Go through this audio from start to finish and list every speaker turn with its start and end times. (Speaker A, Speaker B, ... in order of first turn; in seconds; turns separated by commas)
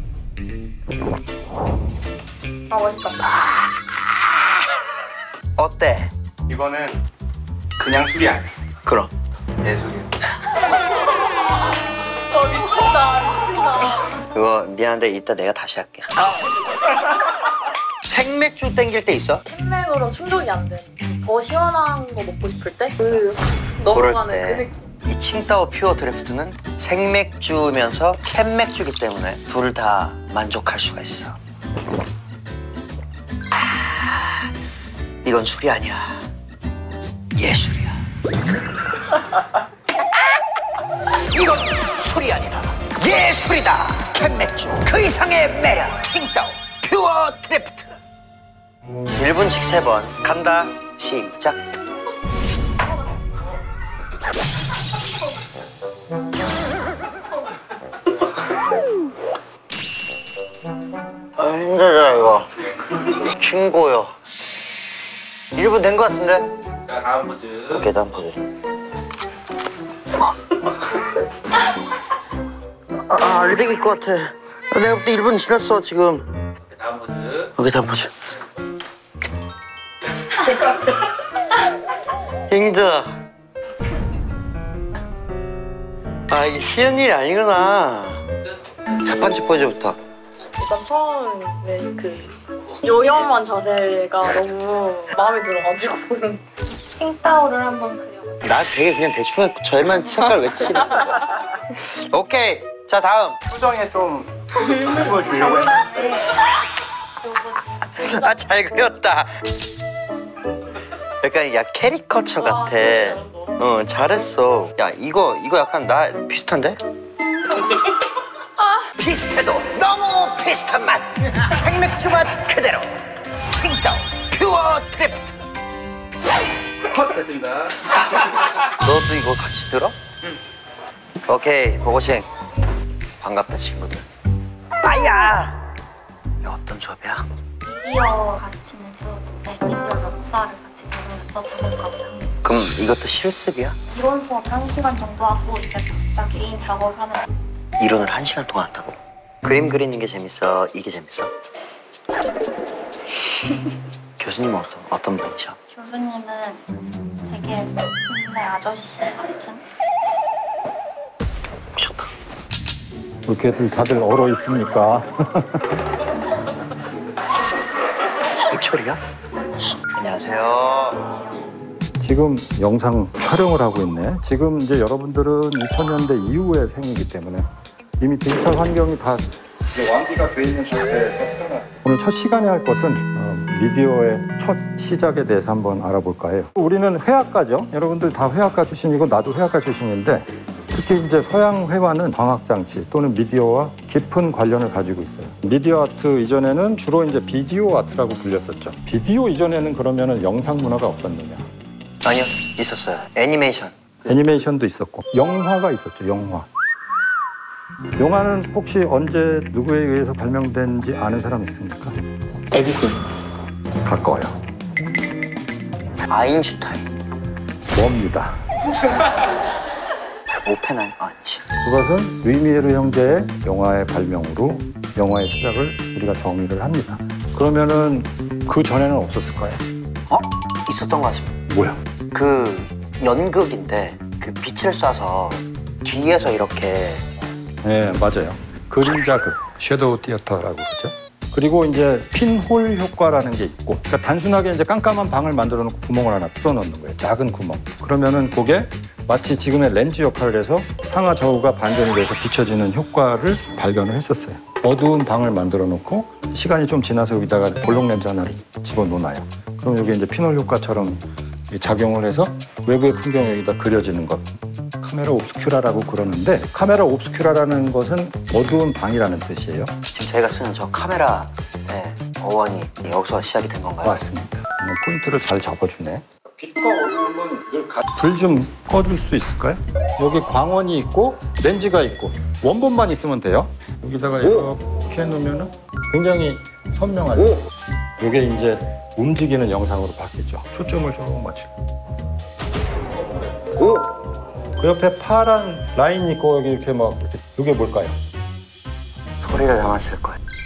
Speaker A: 2.7-3.4, Speaker B: 5.6-6.1, Speaker C: 6.5-7.0, Speaker C: 7.8-8.5, Speaker B: 8.9-9.1, Speaker C: 9.6-10.1, Speaker A: 12.2-14.2, Speaker B: 14.3-16.3, Speaker B: 18.0-19.4, Speaker A: 19.4-24.9, Speaker B: 23.9-31.4, Speaker B: 33.6-34.5, Speaker B: 35.2-36.2, Speaker B: 37.4-38.0, Speaker B: 41.3-47.9, Speaker B: 49.2-51.6, Speaker B: 61.4-62.5, Speaker B: 63.1-64.1, Speaker B: 65.5-66.5, Speaker D: 66.8-67.9, Speaker B: 67.7-68.4, Speaker B: 72.9-76.3, Speaker D: 76.6-77.5, Speaker B: 77.5-78.1, Speaker B: 82.5-83.2, Speaker B: 86.3-88.2, Speaker B: 89.0-90.0, Speaker A: 90.6-96.4, Speaker E: 96.9-98.4, Speaker B: 98.4-101.2, Speaker B: 101.8-103.4, Speaker C: 103.5-105.9, Speaker E: 105.5-106.2, Speaker E: 107.2-107.9, Speaker B: 107.9-109.4, Speaker B: 111.2-116.8, Speaker A: 112.7-113.5, Speaker B: 118.9-122.9, Speaker B: 123.5-125.4, Speaker C: 126.9-127.5, Speaker D: 127.1-127.4, Speaker B: 128.8-129.9, Speaker B: 131.2-132.3, Speaker B: 133.2-134.0, Speaker B: 134.8-135.6, Speaker B: 136.4-137.3, Speaker E: 137.6-142.4, Speaker B: 142.4-143.8, Speaker E: 143.9-147.2, Speaker B: 147.8-151.3, Speaker B: 154.2-155.6, Speaker E: 155.7-156.6, Speaker E: 157.3-159.6, Speaker B: 161.8-162.1, Speaker F: 163.2-165.6, Speaker B: 168.5-169.0, Speaker B: 169.9-171.0, Speaker F: 172.0-177.5, Speaker F: 178.0-201.4, Speaker B: 202.0-203.9, Speaker F: 204.1-206.5, Speaker F: 208.0-211.9, Speaker C: 212.5-213.0, Speaker F: 213.8-214.4, Speaker B: 216.1-216.9, Speaker F: 217.7-218.4, Speaker B: 220.3-221.4, Speaker F: 221.6-229.6, Speaker B: 230.1-231.4, Speaker F: 231.5-231.8, Speaker B: 232.1-237.1, Speaker F: 237.6-269.7, Speaker B: 269.9-274.0, Speaker F: 273.8-287.5, Speaker F: 288.0-291.5, Speaker B: 293.6-293.9, Speaker F: 294.6-298.0, Speaker B: 299.2-300.2